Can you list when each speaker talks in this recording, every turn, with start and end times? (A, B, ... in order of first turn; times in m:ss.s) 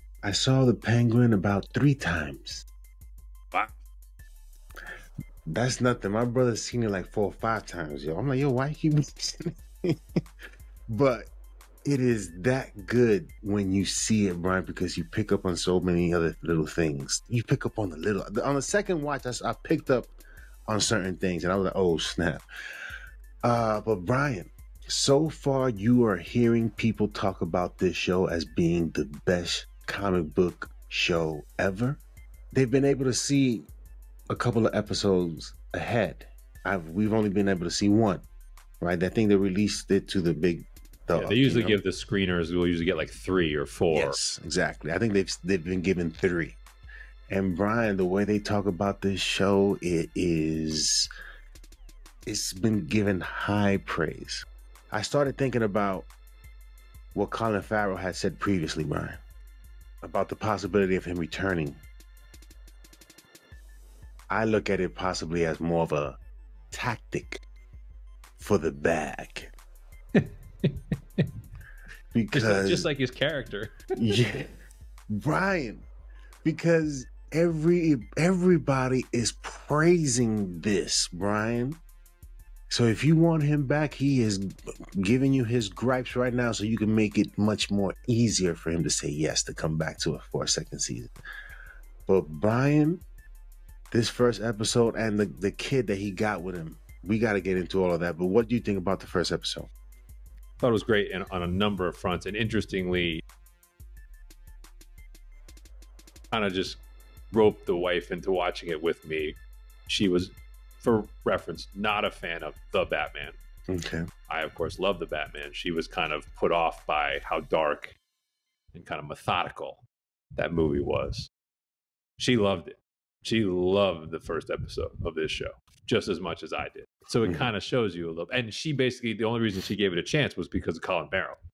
0:00.2-0:02.6 A
0:05.5-0:10.0 A
0:10.9-0:11.3 A
0:11.8-0:20.1 A
0:20.7-0:22.4 A
0:23.4-0:33.7 A
0:34.3-0:38.2 A
0:38.8-0:41.8 A
0:41.1-0:44.2 B
0:43.9-0:46.6 A
0:47.3-0:51.1 A
0:52.2-0:56.1 A
0:57.1-0:59.2 A
1:00.0-1:01.8 A
1:04.3-1:06.2 A
1:06.7-1:07.4 A
1:08.4-1:09.5 A
1:10.1-1:11.3 B
1:12.1-1:12.9 A
1:12.3-1:14.2 B
1:14.0-1:14.5 A
1:15.1-1:15.9 A
1:16.4-1:21.8 A
1:22.7-1:31.1 A
1:32.1-1:33.0 A
1:33.9-1:39.7 A
1:40.6-1:43.2 B
1:46.3-1:46.8 B
1:47.3-1:53.3 B
1:53.7-1:54.0 A
1:54.3-1:58.0 B
1:58.7-1:59.8 B
2:00.4-2:01.3 B
2:02.2-2:11.4 B